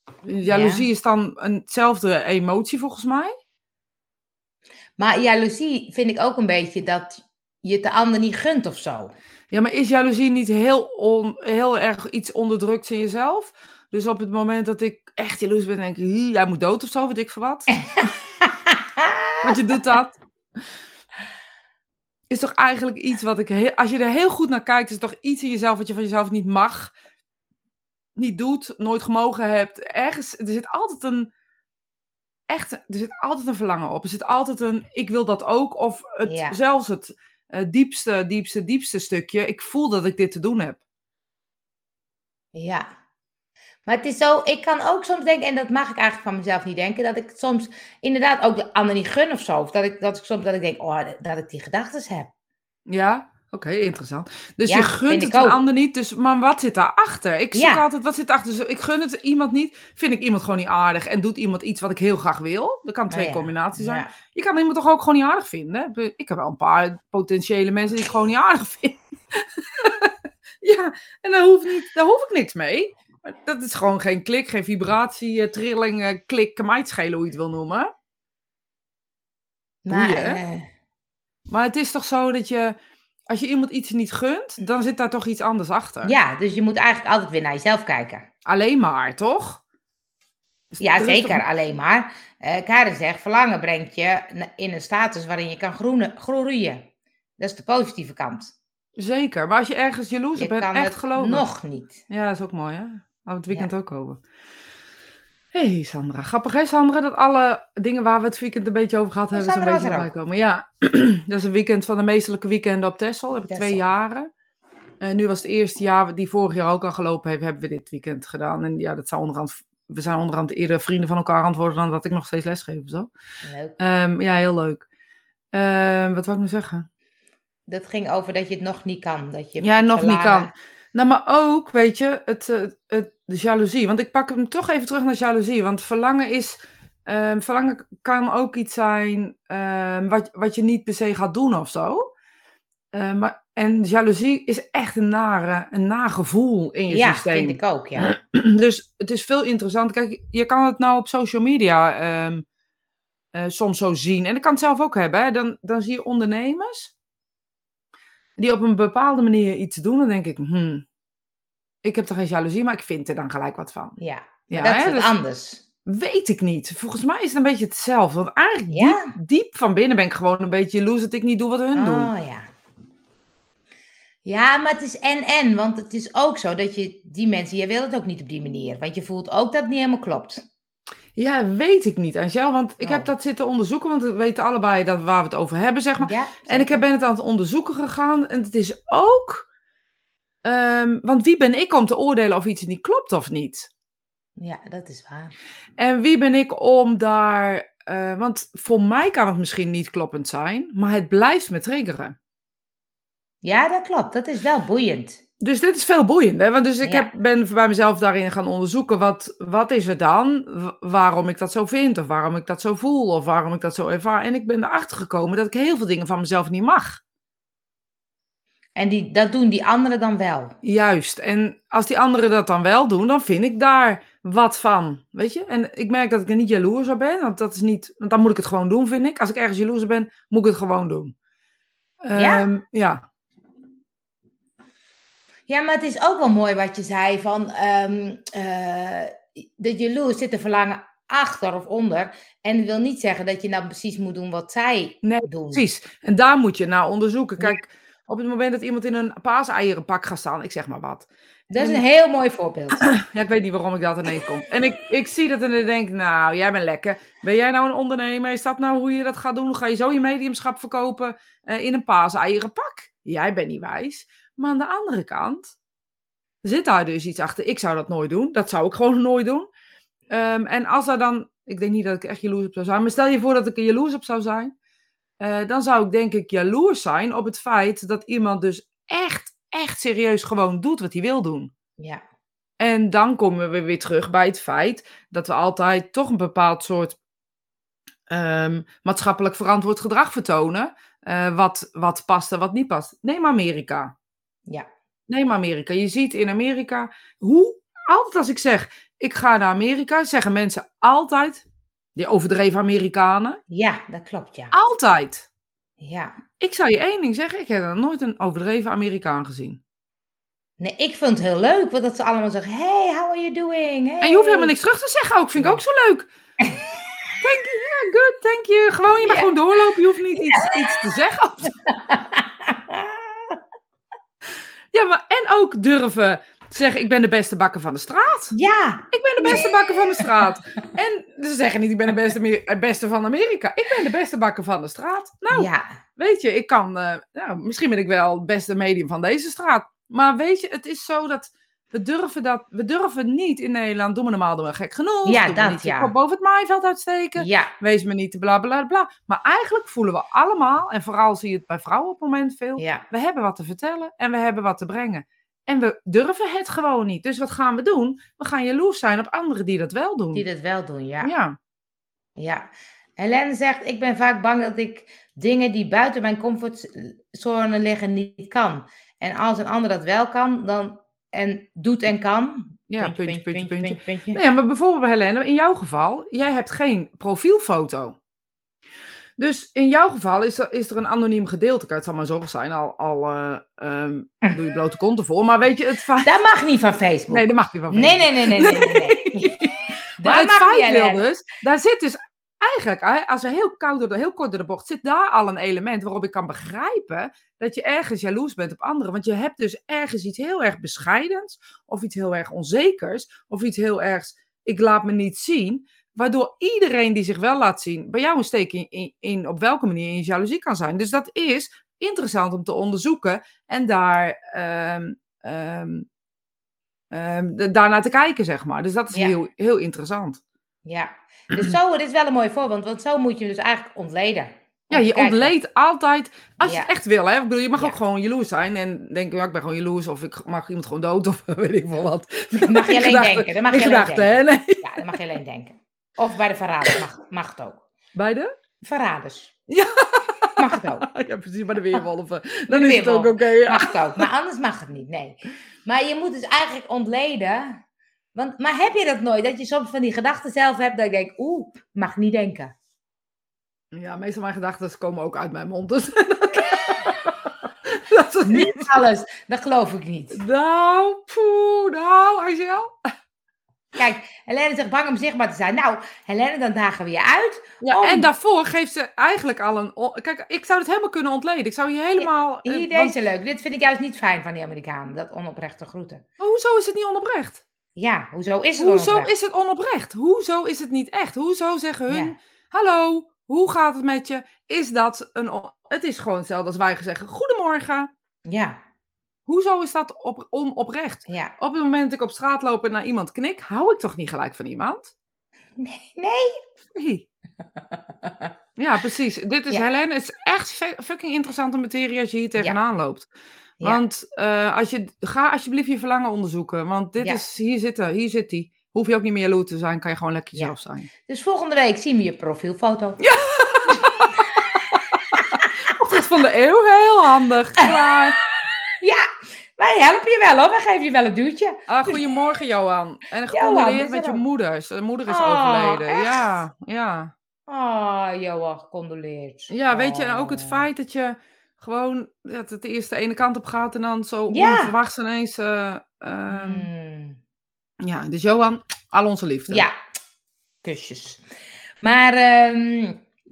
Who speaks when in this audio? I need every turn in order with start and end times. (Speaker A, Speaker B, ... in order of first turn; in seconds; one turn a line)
Speaker A: 0.2-3.3
Speaker B: 0.5-0.9
Speaker B: 5.0-9.1
Speaker A: 9.5-17.7
Speaker B: 17.7-19.7
Speaker A: 19.4-20.2
Speaker A: 22.3-26.9
Speaker A: 28.1-31.3
Speaker A: 32.5-40.8
Speaker B: 36.2-36.5
Speaker B: 42.5-42.9
Speaker B: 43.9-52.3
Speaker A: 52.9-77.9
Speaker B: 54.7-55.6
Speaker B: 57.5-57.8
Speaker B: 63.1-64.1
Speaker B: 79.8-80.7
Speaker A: 79.9-80.4
Speaker A: 81.5-82.8
Speaker A: 83.3-86.1
Speaker B: 86.0-88.2
Speaker A: 88.5-89.6
Speaker A: 90.7-91.4
Speaker B: 90.8-96.8
Speaker B: 97.4-98.5
Speaker A: 99.0-101.4
Speaker B: 100.4-102.0
Speaker A: 102.1-104.2
Speaker A: 105.5-114.3
Speaker B: 109.3-110.1
Speaker B: 113.5-113.8
Speaker A: 115.0-123.1
Speaker B: 123.4-123.8
Speaker A: 123.8-124.8
Speaker A: 125.5-126.8
Speaker B: 127.7-130.5
Speaker A: 129.6-142.0
Speaker A: 142.9-152.4
Speaker B: 146.9-148.1
Speaker A: 153.3-156.9
Speaker A: 158.4-160.8
Speaker A: 161.8-164.0
Speaker B: 164.0-165.6
Speaker A: 164.5-165.1
Speaker A: 165.8-172.1
Speaker B: 168.7-169.1
Speaker B: 171.7-172.5
Speaker B: 174.2-180.4
Speaker A: 181.1-189.4
Speaker B: 182.8-183.1
Speaker B: 186.0-186.8
Speaker A: 190.4-193.7
Speaker B: 194.4-195.3
Speaker A: 195.8-202.2
Speaker B: 203.4-205.2
Speaker A: 205.4-217.0
Speaker B: 206.8-207.1
Speaker B: 218.8-220.5
Speaker A: 220.6-231.1
Speaker A: 232.0-233.0
Speaker B: 232.1-232.5
Speaker B: 235.5-245.6
Speaker A: 245.0-251.8
Speaker B: 251.5-252.9
Speaker A: 252.8-265.5
Speaker A: 266.4-269.5
Speaker A: 270.1-274.5
Speaker A: 275.2-281.5
Speaker A: 282.6-287.0
Speaker A: 288.1-293.9
Speaker A: 295.1-301.4
Speaker A: 301.9-303.4
Speaker B: 303.5-304.5
Speaker A: 304.5-305.2
Speaker B: 305.8-306.2
Speaker A: 306.4-309.6
Speaker B: 310.6-314.5
Speaker A: 314.0-316.1
Speaker B: 315.4-315.6
Speaker A: 317.2-321.5
Speaker B: 319.0-319.3
Speaker B: 320.3-320.7
Speaker B: 321.7-323.4
Speaker A: 324.7-328.3
Speaker B: 328.3-330.2
Speaker A: 328.9-360.2
Speaker B: 335.3-335.8
Speaker B: 345.0-345.9
Speaker B: 347.2-347.5
Speaker B: 352.6-352.8
Speaker B: 360.1-361.1
Speaker A: 361.0-361.4
Speaker B: 362.2-362.5
Speaker B: 363.0-374.2
Speaker A: 372.7-378.0
Speaker A: 379.2-386.1
Speaker B: 386.0-389.4
Speaker A: 387.1-415.9
Speaker B: 390.0-391.0
Speaker A: 416.9-420.2
Speaker B: 420.6-425.3
Speaker A: 424.7-434.8
Speaker B: 426.4-426.7
Speaker B: 432.3-437.6
Speaker A: 437.9-438.3
Speaker B: 438.6-439.3
Speaker A: 439.5-444.1
Speaker B: 440.4-440.9
Speaker B: 442.5-447.6
Speaker B: 448.1-452.5
Speaker A: 453.7-458.7
Speaker B: 456.4-457.0
Speaker B: 458.3-460.2
Speaker A: 460.1-462.8
Speaker B: 463.8-468.1
Speaker A: 467.6-472.9
Speaker B: 472.0-476.0
Speaker A: 476.2-477.4
Speaker B: 477.8-479.1
Speaker A: 478.6-487.9
Speaker B: 481.9-482.1
Speaker B: 488.3-488.6
Speaker A: 489.3-494.9
Speaker B: 495.6-496.4
Speaker A: 496.7-497.0
Speaker B: 498.0-498.3
Speaker A: 498.6-503.1
Speaker A: 503.6-510.9
Speaker B: 511.1-513.0
Speaker A: 513.0-514.2
Speaker B: 514.2-515.5
Speaker A: 515.1-518.1
Speaker B: 518.8-519.0
Speaker B: 519.6-521.6
Speaker A: 521.7-527.1
Speaker B: 523.3-524.2
Speaker B: 525.1-526.3
Speaker B: 527.5-530.6
Speaker A: 529.5-536.7
Speaker B: 534.3-534.7
Speaker B: 536.3-537.2
Speaker A: 537.8-539.7
Speaker B: 539.5-539.7
Speaker B: 540.6-541.2
Speaker B: 541.8-543.0